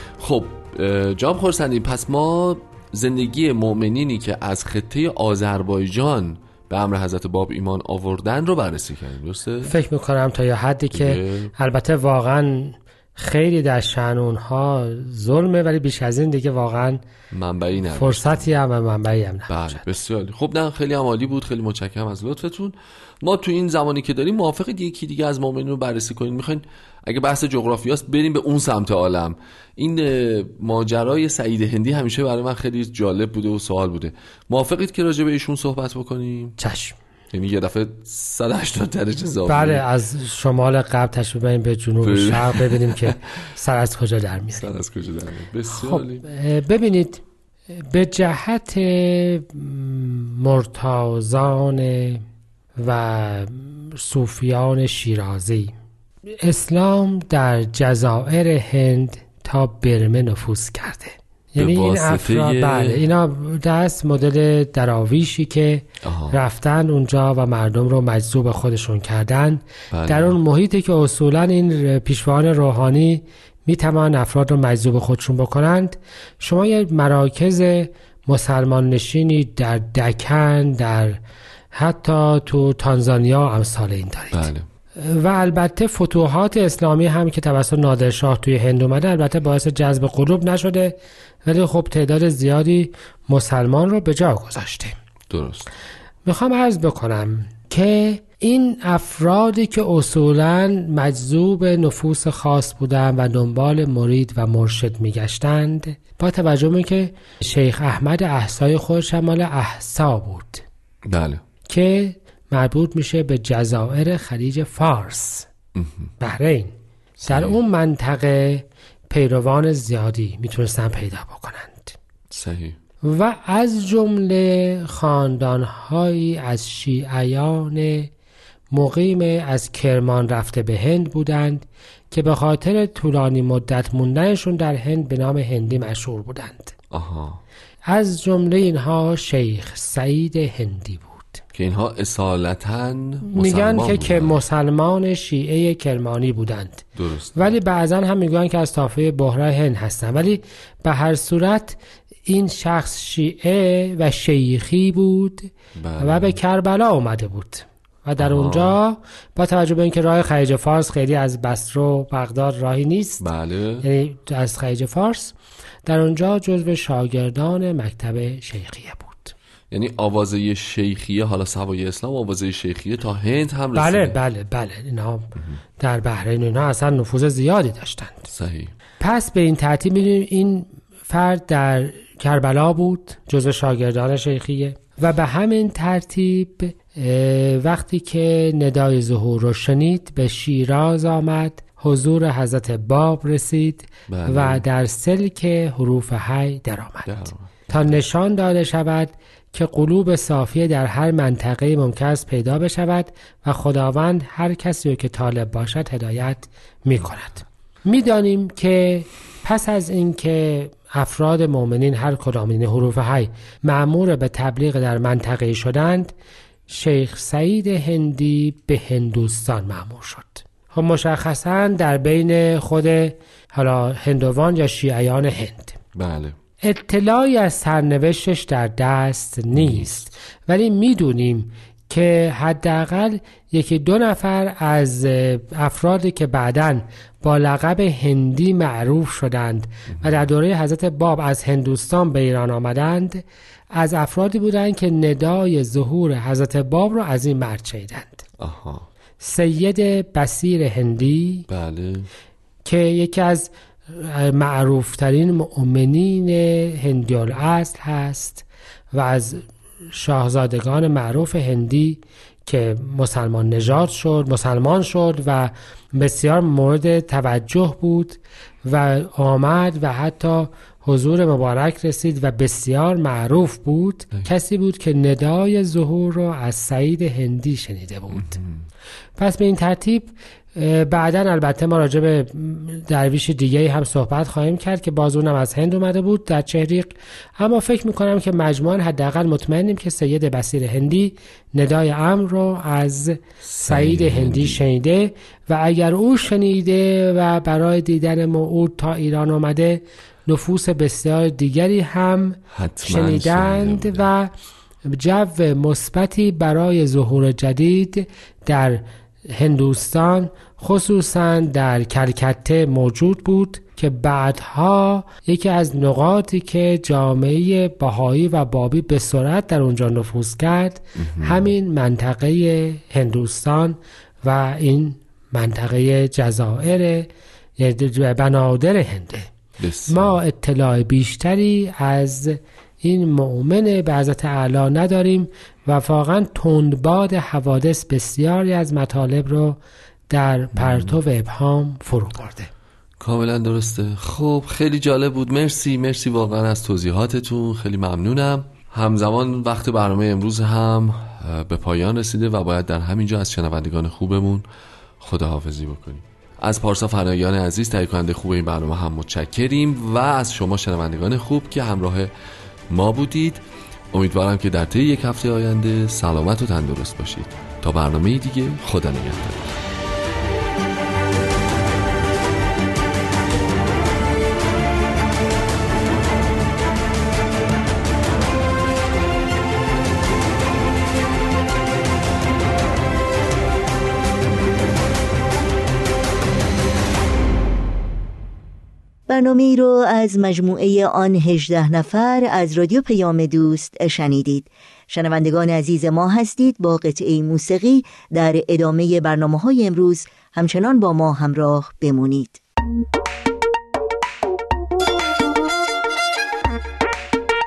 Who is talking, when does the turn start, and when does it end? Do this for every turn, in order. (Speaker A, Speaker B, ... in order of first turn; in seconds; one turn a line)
Speaker A: 0.2-9.7
Speaker B: 9.6-17.0
Speaker A: 10.9-11.5
Speaker A: 17.3-18.5
Speaker B: 17.9-19.8
Speaker A: 19.5-36.5
Speaker B: 36.6-37.0
Speaker A: 37.3-39.8
Speaker B: 39.5-44.7
Speaker A: 42.0-43.1
Speaker A: 44.5-46.2
Speaker B: 45.7-47.2
Speaker B: 47.7-52.2
Speaker B: 52.8-55.7
Speaker B: 56.4-81.2
Speaker A: 61.6-63.0
Speaker A: 66.0-66.4
Speaker A: 69.9-70.4
Speaker B: 81.7-95.0
Speaker A: 84.3-84.7
Speaker A: 95.3-95.7
Speaker B: 96.2-110.6
Speaker A: 111.1-111.4
Speaker B: 111.7-115.5
Speaker A: 115.8-116.1
Speaker B: 116.2-116.7
Speaker A: 117.2-117.6
Speaker B: 117.2-121.9
Speaker A: 122.3-122.8
Speaker B: 123.0-128.1
Speaker B: 128.7-136.7
Speaker A: 136.9-137.4
Speaker B: 137.9-141.4
Speaker A: 141.5-144.4
Speaker B: 143.3-163.2
Speaker A: 146.9-147.6
Speaker A: 155.8-156.3
Speaker A: 158.2-158.8
Speaker A: 163.2-163.8
Speaker B: 163.8-165.3
Speaker B: 165.9-169.3
Speaker A: 169.7-174.2
Speaker B: 173.7-178.3
Speaker A: 178.3-178.7
Speaker B: 179.0-197.1
Speaker A: 194.1-194.6
Speaker A: 197.0-198.0
Speaker B: 197.7-216.1
Speaker B: 216.7-225.8
Speaker A: 225.9-226.4
Speaker B: 226.6-248.2
Speaker A: 229.5-229.9
Speaker A: 239.9-240.2
Speaker A: 248.4-248.9
Speaker B: 249.2-251.4
Speaker A: 251.5-252.1
Speaker B: 252.6-278.4
Speaker A: 278.1-278.5
Speaker B: 279.2-304.3
Speaker A: 293.4-294.6
Speaker A: 302.5-304.1
Speaker B: 304.9-329.3
Speaker A: 321.0-321.5
Speaker A: 329.6-330.1
Speaker B: 329.9-339.6
Speaker B: 340.1-342.5
Speaker A: 340.6-340.9
Speaker A: 343.0-354.4
Speaker A: 355.0-362.1
Speaker A: 362.7-363.4
Speaker A: 363.9-369.5
Speaker C: 389.1-402.4